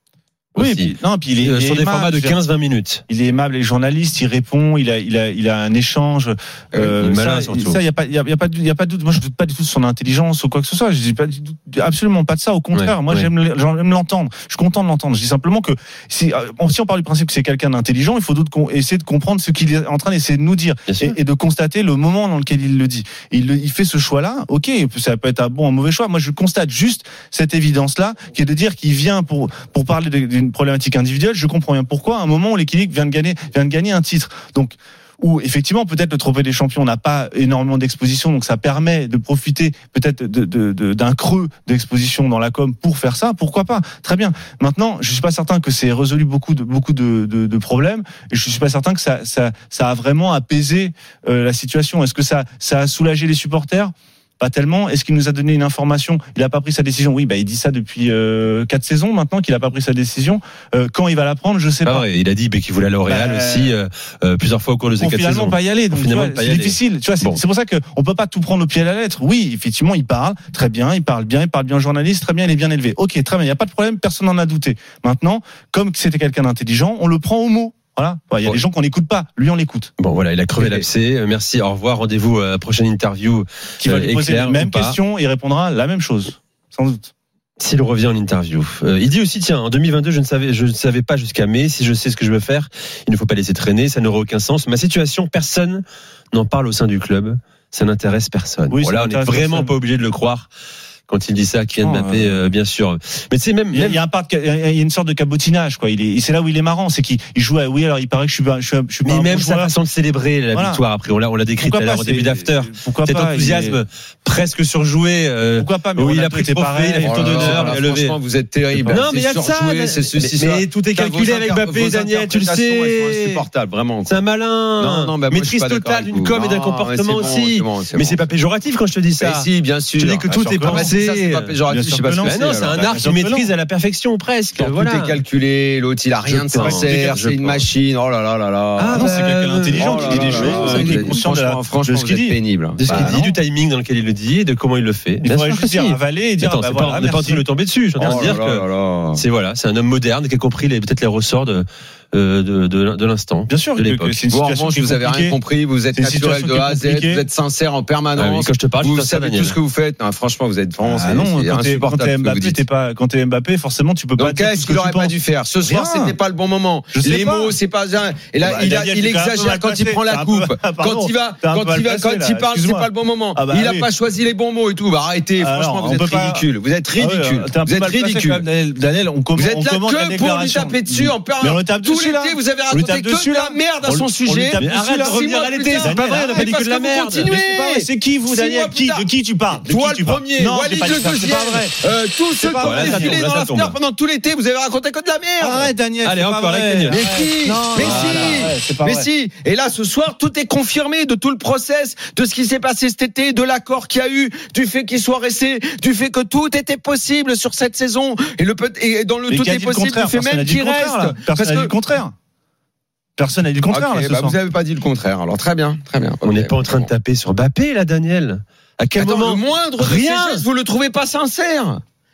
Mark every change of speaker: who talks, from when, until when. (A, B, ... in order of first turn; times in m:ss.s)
0:00.6-0:03.0 A
0:00.6-0:02.4 B
0:03.1-1:02.0 B
0:07.0-0:07.8 A
0:12.8-0:13.3 A
0:20.9-0:21.2 A
1:01.8-1:07.4 A
1:03.0-1:03.8 B
1:05.0-1:19.9 B
1:20.0-1:25.0 A
1:20.6-1:20.8 C
1:23.8-1:27.1 B
1:27.6-1:40.5 A
1:38.7-1:39.7 B
1:41.1-1:44.0 A
1:41.8-1:42.5 B
1:43.7-1:49.7 B
1:49.0-1:58.2 A
1:50.5-1:50.8 B
1:51.6-1:53.8 B
1:55.6-1:57.8 B
1:57.0-2:04.2 C
1:58.8-1:59.1 B
1:58.8-2:03.4 A
2:04.1-2:11.6 A
2:04.8-2:08.3 C
2:09.2-2:12.9 C
2:10.3-2:11.0 B
2:11.7-2:13.5 B
2:12.2-2:15.2 A
2:14.6-2:19.1 C
2:16.2-2:17.7 A
2:18.8-2:21.2 A
2:18.9-2:23.4 B
2:19.8-2:23.2 C
2:22.8-2:34.2 A
2:25.2-2:27.4 B
2:28.0-2:29.2 C
2:28.0-2:28.4 B
2:33.5-2:35.4 B
2:34.3-2:42.6 C
2:35.9-2:37.2 B
2:38.1-2:39.6 A
2:40.8-2:46.2 B
2:44.2-2:58.4 C
2:46.9-2:47.6 B
2:48.4-2:53.9 B
2:55.4-3:05.2 B
2:59.4-3:09.1 C
3:04.6-3:07.4 A
3:05.8-3:06.5 B
3:07.3-3:13.3 B
3:09.6-3:15.7 C
3:12.6-3:13.8 A
3:15.4-3:19.1 B
3:16.0-3:18.5 A
3:16.9-3:31.7 C
3:29.3-3:32.1 B
3:33.2-3:34.4 B
3:33.7-3:36.9 C
3:36.2-3:40.4 A
3:39.0-3:41.8 C